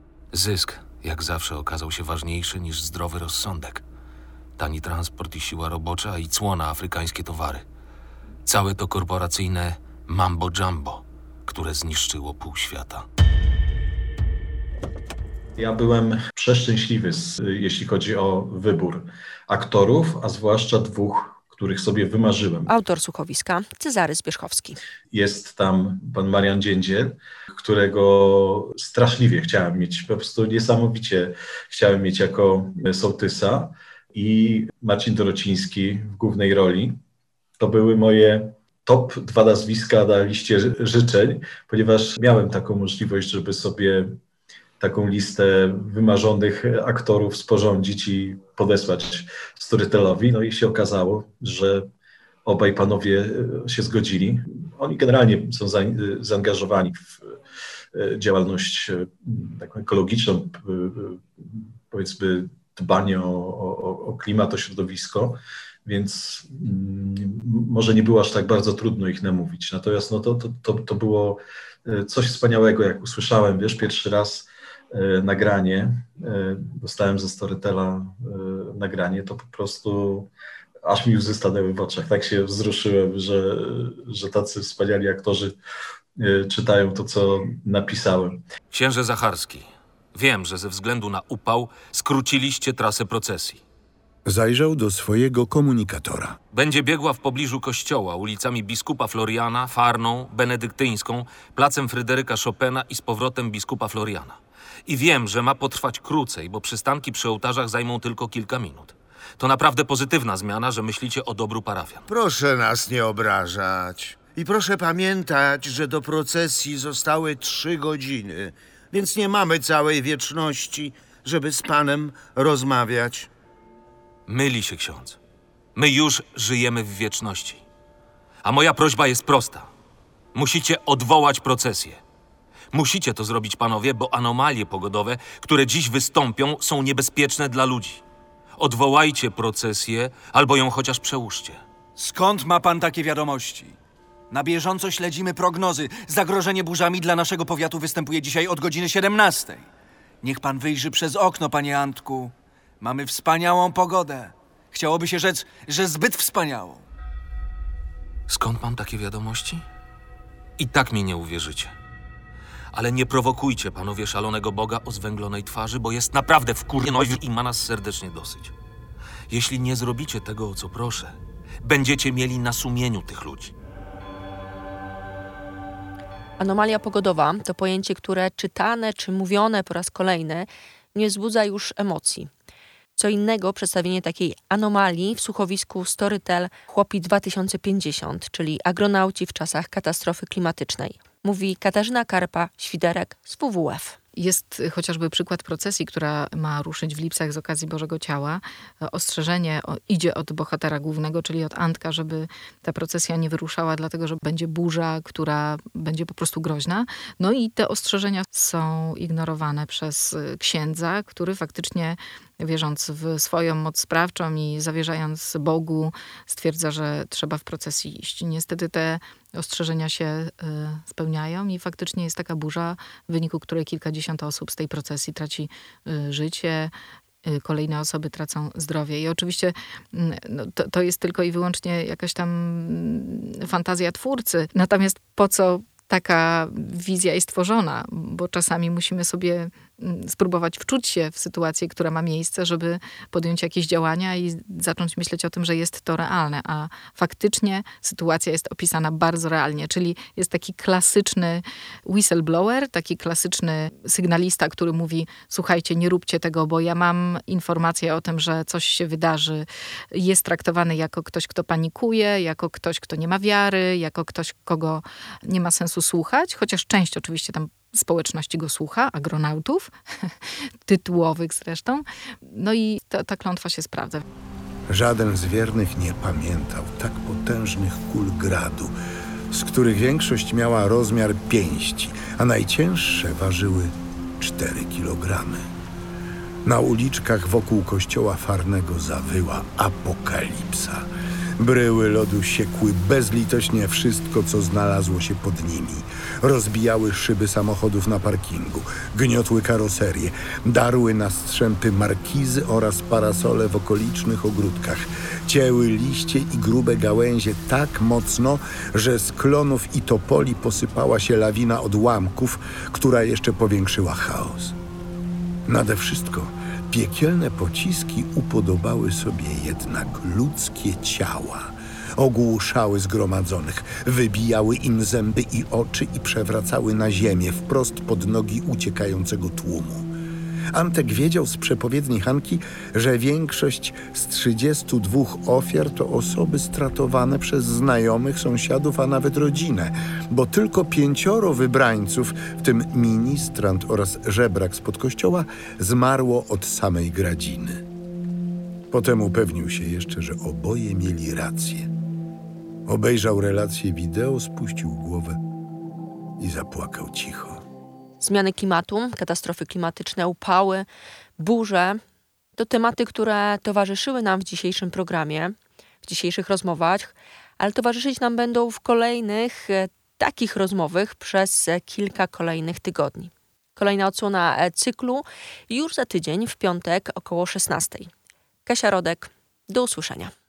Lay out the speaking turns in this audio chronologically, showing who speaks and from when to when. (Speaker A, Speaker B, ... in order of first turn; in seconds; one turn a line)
Speaker A: 0.3-3.8
Speaker A: 4.6-7.6
Speaker A: 8.5-13.1
Speaker B: 15.6-22.7
Speaker C: 22.7-24.8
Speaker B: 25.1-37.0
Speaker B: 37.6-44.2
Speaker B: 44.8-51.9
Speaker B: 52.5-57.4
Speaker B: 57.9-80.3
Speaker B: 80.8-85.5
Speaker B: 86.2-88.4
Speaker A: 88.7-93.6
Speaker D: 94.2-96.4
Speaker A: 96.5-112.0
Speaker E: 112.1-123.3
Speaker A: 124.3-125.2
Speaker A: 125.8-127.6
Speaker A: 128.4-129.7
Speaker A: 130.3-132.0
Speaker A: 132.7-138.0
Speaker A: 138.6-141.6
Speaker F: 142.0-143.8
Speaker F: 144.3-149.7
Speaker F: 150.2-156.9
Speaker A: 158.3-159.7
Speaker A: 160.6-161.8
Speaker A: 162.7-168.5
Speaker A: 169.3-173.5
Speaker C: 176.4-182.3
Speaker C: 183.0-194.0
Speaker G: 194.2-226.7
Speaker G: 227.2-270.1
Speaker G: 270.7-274.0
Speaker D: 274.7-278.8
Speaker D: 279.3-285.5
Speaker D: 286.4-314.6
Speaker D: 315.5-329.9
Speaker D: 330.5-347.6
Speaker D: 348.7-351.7
Speaker D: 352.7-355.2
Speaker D: 356.2-357.4
Speaker C: 358.0-360.7
Speaker C: 361.2-361.8
Speaker C: 362.4-377.9
Speaker C: 378.5-380.1